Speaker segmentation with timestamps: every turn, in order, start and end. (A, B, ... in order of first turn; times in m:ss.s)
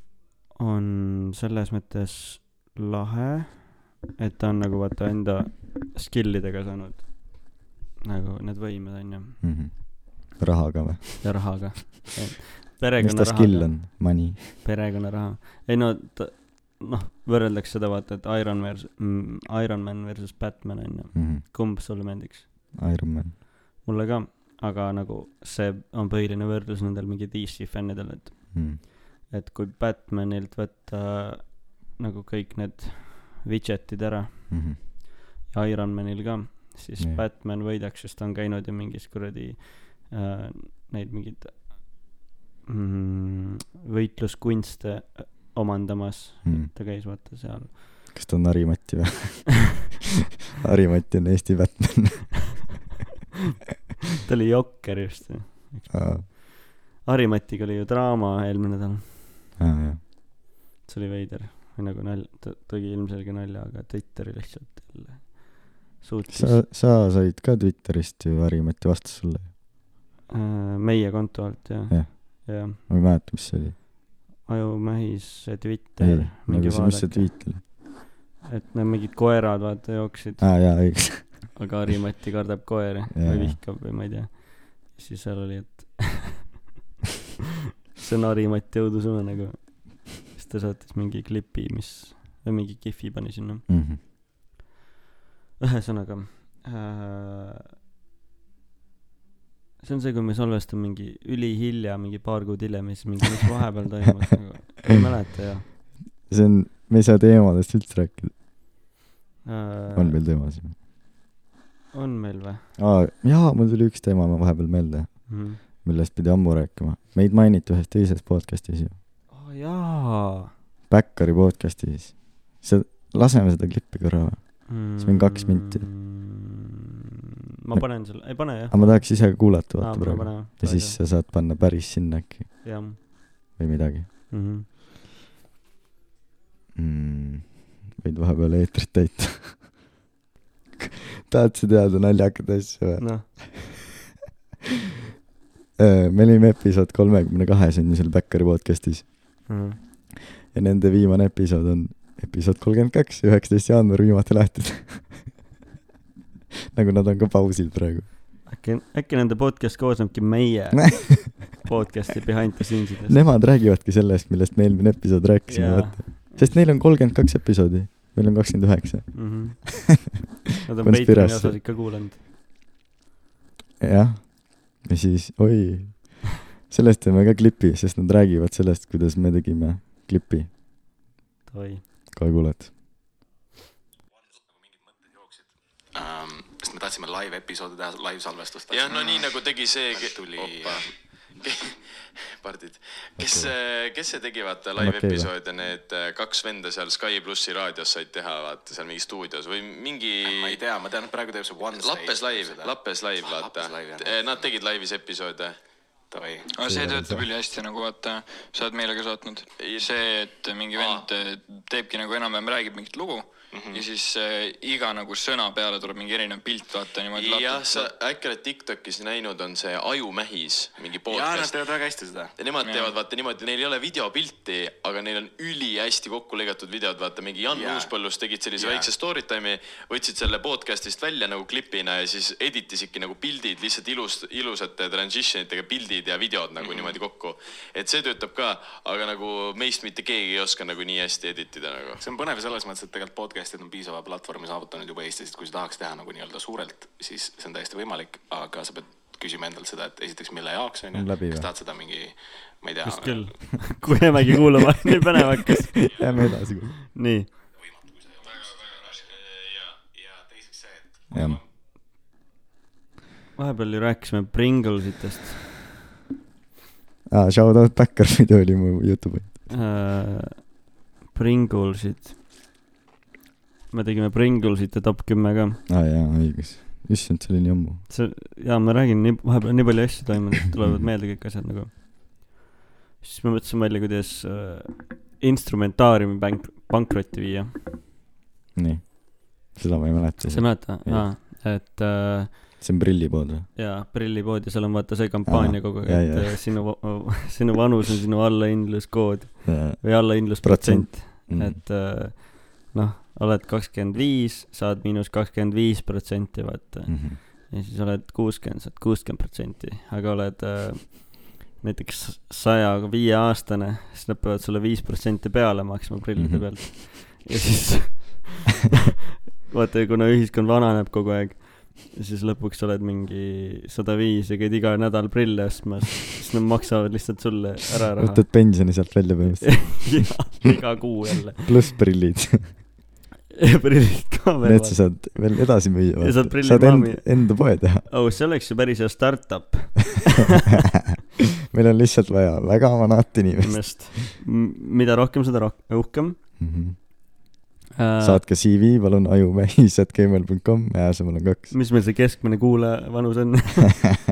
0:00.6-0:09.4 A
0:09.4-0:11.7 B
0:11.2-0:22.5 A
0:13.0-0:14.5 B
0:21.1-0:21.4 B
0:22.7-0:23.4 B
0:23.8-0:34.9 A
0:28.5-0:28.8 B
0:34.5-0:34.8 B
0:35.5-0:42.1 A
0:42.7-0:47.8 A
0:46.4-0:46.7 B
0:48.1-0:49.9 B
0:50.6-0:52.6 B
0:54.2-0:56.5 A
0:55.9-0:56.2 B
0:57.0-0:59.4 A
0:59.6-1:00.0 B
1:00.8-1:06.6 A
1:06.3-1:09.5 B
1:10.3-1:12.8 A
1:11.9-1:13.8 B
1:14.4-1:17.8 A
1:16.0-1:17.6 B
1:18.4-1:21.0 A
1:20.4-1:21.5 B
1:21.5-1:26.4 A
1:23.1-1:23.6 B
1:28.0-1:33.6 A
1:33.7-1:34.0 B
1:35.6-1:37.6 A
1:39.8-1:45.6 A
1:46.3-1:48.3 B
1:49.4-1:50.2 A
1:49.9-1:50.7 B
1:51.9-1:52.7 A
1:52.8-1:59.0 B
1:55.3-1:55.6 A
1:59.3-2:00.5 A
2:00.9-2:05.9 B
2:04.7-2:06.3 A
2:07.6-2:11.0 A
2:07.7-2:12.6 B
2:12.6-2:13.0 A
2:13.6-2:14.1 B
2:14.3-2:14.6 A
2:16.7-2:19.7 B
2:21.3-2:23.7 B
2:23.0-2:23.2 A
2:25.8-2:29.6 B
2:29.5-2:29.8 A
2:30.5-2:35.3 B
2:36.7-2:38.1 B
2:38.4-2:43.2 A
2:43.1-2:49.7 B
2:45.5-2:46.6 A
2:49.1-2:50.1 A
2:50.6-2:52.2 A
2:50.8-2:51.6 B
2:53.8-3:00.5 B
3:01.5-3:01.8 A
3:02.1-3:02.7 B
3:04.2-3:10.9 C
3:08.7-3:11.8 D
3:12.4-3:20.6 D
3:13.2-3:13.5 B
3:14.8-3:15.3 B
3:20.2-3:24.5 C
3:21.7-3:25.6 D
3:26.1-3:26.5 C
3:26.5-3:37.8 E
3:26.6-3:27.2 B
3:29.6-3:29.9 D
3:30.7-3:31.0 D
3:33.5-3:33.8 C
3:37.1-3:41.7 D
3:41.0-3:42.3 C
3:42.4-4:02.0 D
3:42.6-3:42.9 E
3:47.5-3:47.9 C
3:48.6-3:48.9 C
3:56.6-3:57.0 C
4:02.0-4:13.8 C
4:10.9-4:11.5 B
4:12.8-4:15.9 A
4:15.8-4:16.7 B
4:16.9-4:17.3 A
4:17.6-4:21.4 C
4:18.4-4:18.8 E
4:21.1-4:21.4 B
4:23.4-4:25.4 A
4:27.1-4:29.5 B
4:29.5-4:32.1 A
4:33.7-4:35.6 A
4:35.7-4:37.8 B
4:37.9-4:42.3 A
4:43.0-4:47.8 A
4:48.5-4:51.1 B
4:50.3-4:52.5 A
4:52.6-4:53.5 B
4:53.6-5:18.3 A
4:55.2-4:56.6 B
4:59.4-5:01.6 B
5:06.9-5:07.2 B
5:16.2-5:16.5 B
5:19.5-5:28.6 A
5:28.0-5:30.3 B
5:29.4-5:31.6 A
5:31.4-5:32.6 B
5:33.4-5:35.3 A
5:34.4-5:37.8 B
5:36.0-5:40.3 A
5:41.5-5:44.0 B
5:43.4-5:46.2 A
5:46.4-5:46.8 B
5:47.8-5:48.2 A
5:48.0-5:51.5 B
5:51.5-5:53.9 A